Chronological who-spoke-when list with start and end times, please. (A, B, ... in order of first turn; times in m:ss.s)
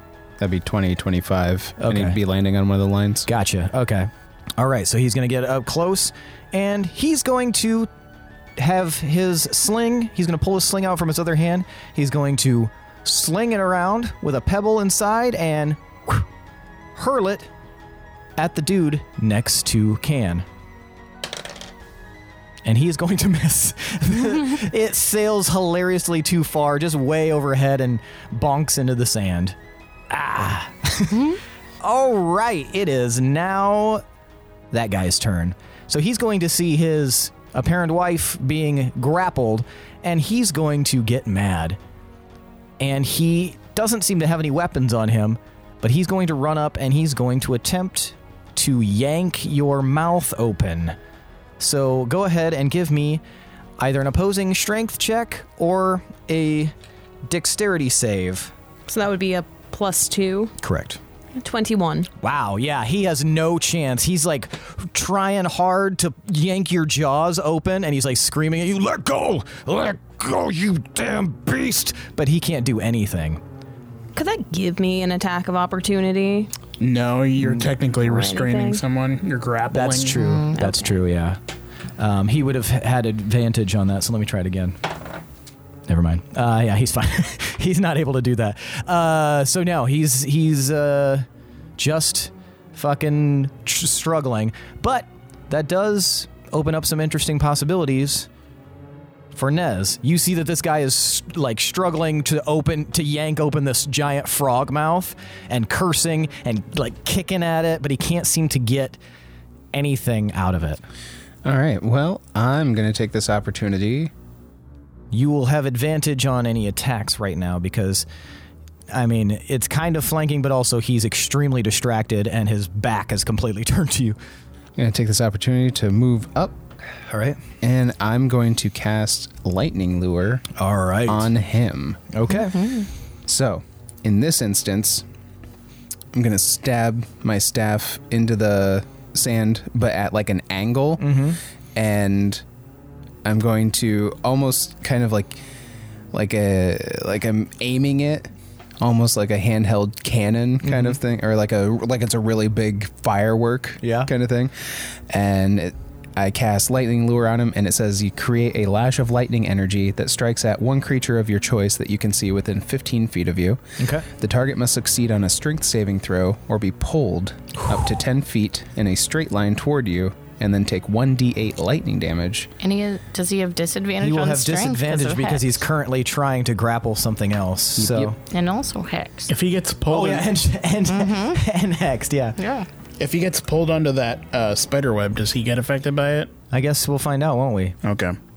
0:00.4-0:03.3 A
0:01.8-0:02.2 B
0:03.3-0:07.9 B
0:08.6-0:16.3 B
0:17.0-0:17.5 B
0:18.4-0:20.5 B
0:22.6-0:29.6 B
0:30.1-0:34.0 B
0:34.7-0:41.8 B
0:42.8-0:51.0 B
0:51.6-0:53.2 B
0:53.8-0:56.8 B
0:57.3-0:58.5 B
0:58.9-1:00.6 C
1:00.6-1:01.0 B
1:01.4-1:02.1 C
1:02.2-1:13.4 B
1:14.2-1:16.5 C
1:16.8-1:20.3 D
1:18.0-1:18.8 C
1:19.7-1:21.4 B
1:20.2-1:20.7 E
1:22.0-1:24.8 B
1:25.9-1:38.3 B
1:39.3-1:49.0 B
1:49.7-1:50.8 B
1:51.4-1:54.1 A
1:55.1-1:58.1 B
1:58.9-2:04.2 B
2:04.8-2:06.6 A
2:07.0-2:07.4 B
2:07.6-2:10.5 A
2:10.6-2:11.3 B
2:11.0-2:12.0 A
2:12.1-2:12.8 B
2:12.4-2:12.9 E
2:13.3-2:15.0 A
2:16.1-2:21.1 A
2:21.0-2:21.4 B
2:21.8-2:22.4 A
2:23.2-2:25.4 A
2:26.1-2:52.5 A
2:30.6-2:31.0 B
2:33.8-2:34.1 B
2:43.8-2:44.1 B
2:52.6-2:55.6 E
2:54.0-2:58.2 B
2:57.8-2:58.1 A
2:58.3-2:59.3 E
2:59.3-3:00.3 D
2:59.9-3:02.4 B
3:00.9-3:01.4 E
3:02.4-3:02.7 E
3:03.0-3:06.3 D
3:06.5-3:07.8 B
3:07.8-3:08.2 D